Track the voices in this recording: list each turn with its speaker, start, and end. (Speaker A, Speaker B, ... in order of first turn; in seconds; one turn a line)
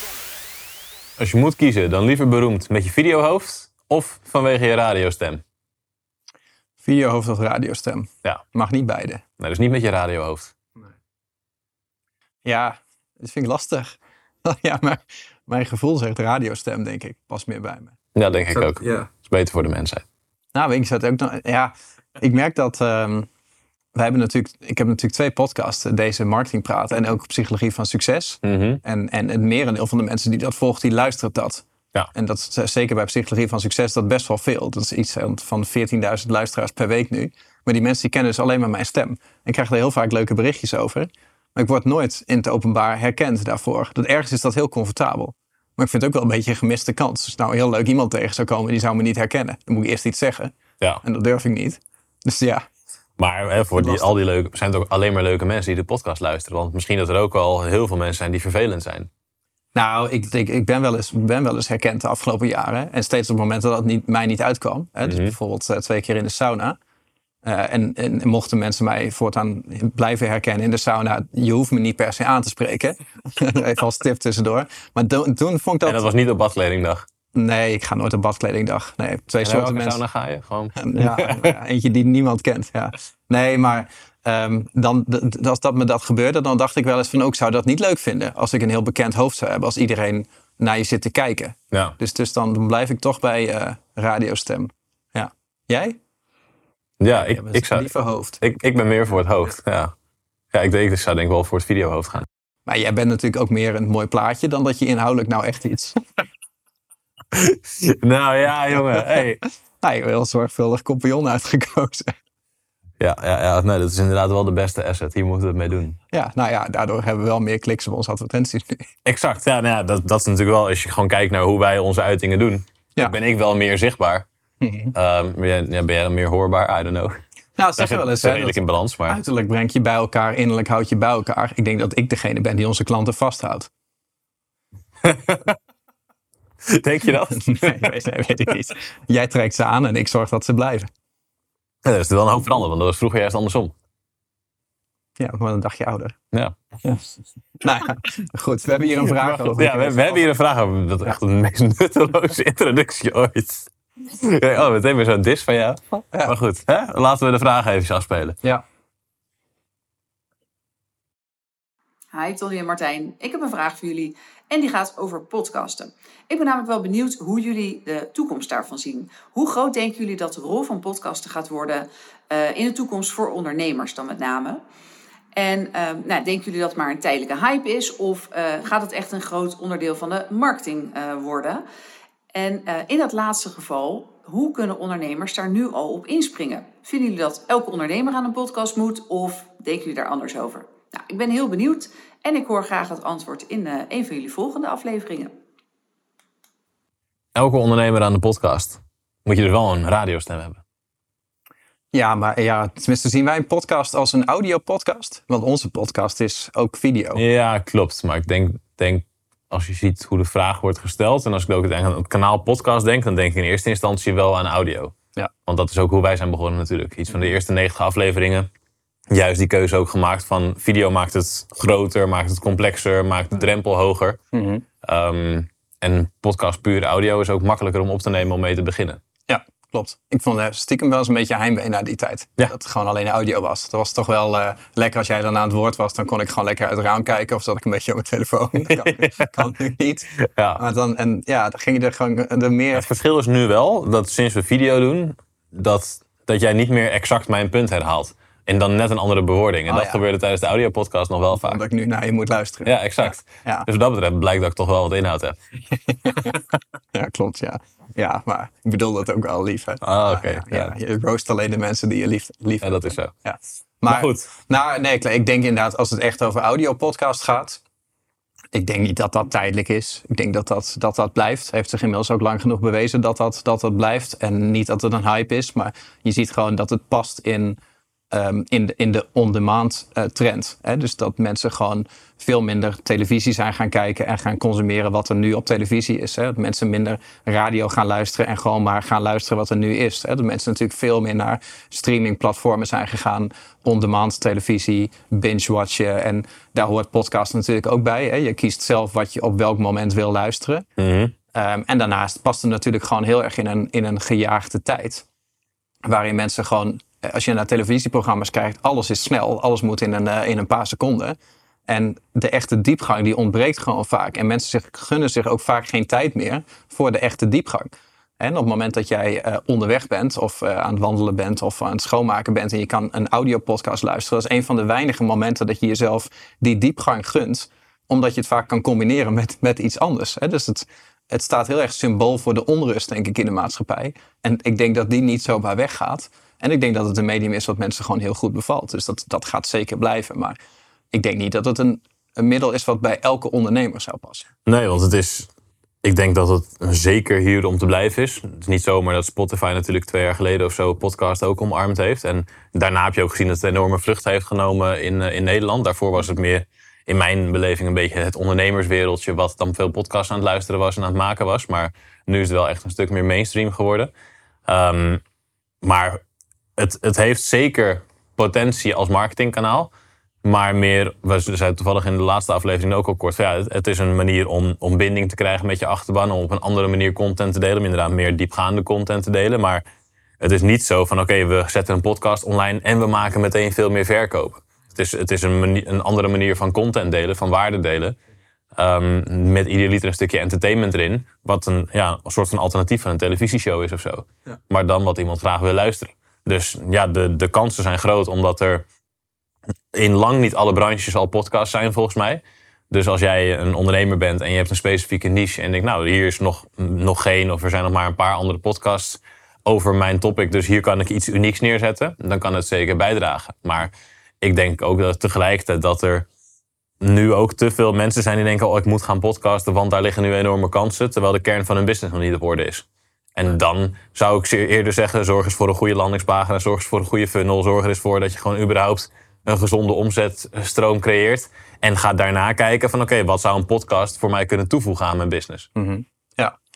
Speaker A: 1.2-5.4
Speaker B: 6.8-9.2
Speaker A: 9.4-10.5
Speaker B: 12.4-17.9
Speaker A: 18.1-20.0
Speaker B: 18.5-19.1
Speaker B: 20.5-23.3
Speaker B: 23.9-52.6
Speaker A: 28.4-28.8
Speaker A: 53.2-59.1
Speaker B: 53.8-54.1
Speaker B: 59.7-66.8
Speaker A: 65.0-65.3
Speaker B: 67.4-76.1
Speaker A: 75.8-77.1
Speaker B: 77.3-80.0
Speaker A: 79.4-81.5
Speaker B: 80.8-96.0
Speaker A: 97.0-99.9
Speaker B: 97.1-98.4
Speaker A: 100.5-102.2
Speaker B: 102.7-106.0
Speaker A: 107.3-109.4
Speaker B: 109.8-112.1
Speaker A: 113.0-116.0
Speaker B: 116.1-118.8
Speaker A: 119.0-124.2
Speaker B: 124.6-124.9
Speaker A: 124.9-127.2
Speaker B: 127.6-133.7
Speaker A: 127.8-129.2
Speaker A: 135.0-135.6
Speaker A: 136.6-137.9
Speaker B: 137.3-140.9
Speaker A: 141.8-143.7
Speaker B: 145.2-146.2
Speaker B: 147.6-150.2
Speaker A: 149.1-158.4
Speaker C: 162.1-174.6
Speaker C: 175.3-181.6
Speaker C: 182.3-195.3
Speaker A: 197.3-200.6
Speaker B: 201.9-207.2
Speaker A: 207.1-214.9
Speaker A: 215.5-218.5
Speaker A: 219.1-224.2
Speaker B: 224.3-224.6
Speaker A: 224.8-229.0
Speaker B: 229.3-242.8
Speaker A: 238.8-239.5
Speaker A: 240.2-240.6
Speaker A: 242.7-251.6
Speaker B: 249.7-250.0
Speaker B: 251.3-253.7
Speaker A: 252.6-255.4
Speaker B: 255.8-256.4
Speaker B: 256.9-267.6
Speaker A: 259.8-260.7
Speaker A: 262.6-263.1
Speaker A: 263.9-264.3
Speaker B: 268.5-277.6
Speaker B: 278.1-300.6
Speaker A: 300.8-301.1
Speaker B: 301.3-305.0
Speaker B: 305.8-340.4
Speaker B: 340.9-344.3
Speaker A: 344.4-345.3
Speaker A: 345.8-363.9
Speaker A: 364.4-365.0
Speaker A: 365.6-366.0
Speaker A: 366.6-369.7
Speaker A: 370.2-379.6
Speaker A: 380.2-388.0
Speaker A: 388.6-398.6
Speaker A: 399.7-416.1
Speaker A: 416.8-435.5
Speaker B: 435.6-436.4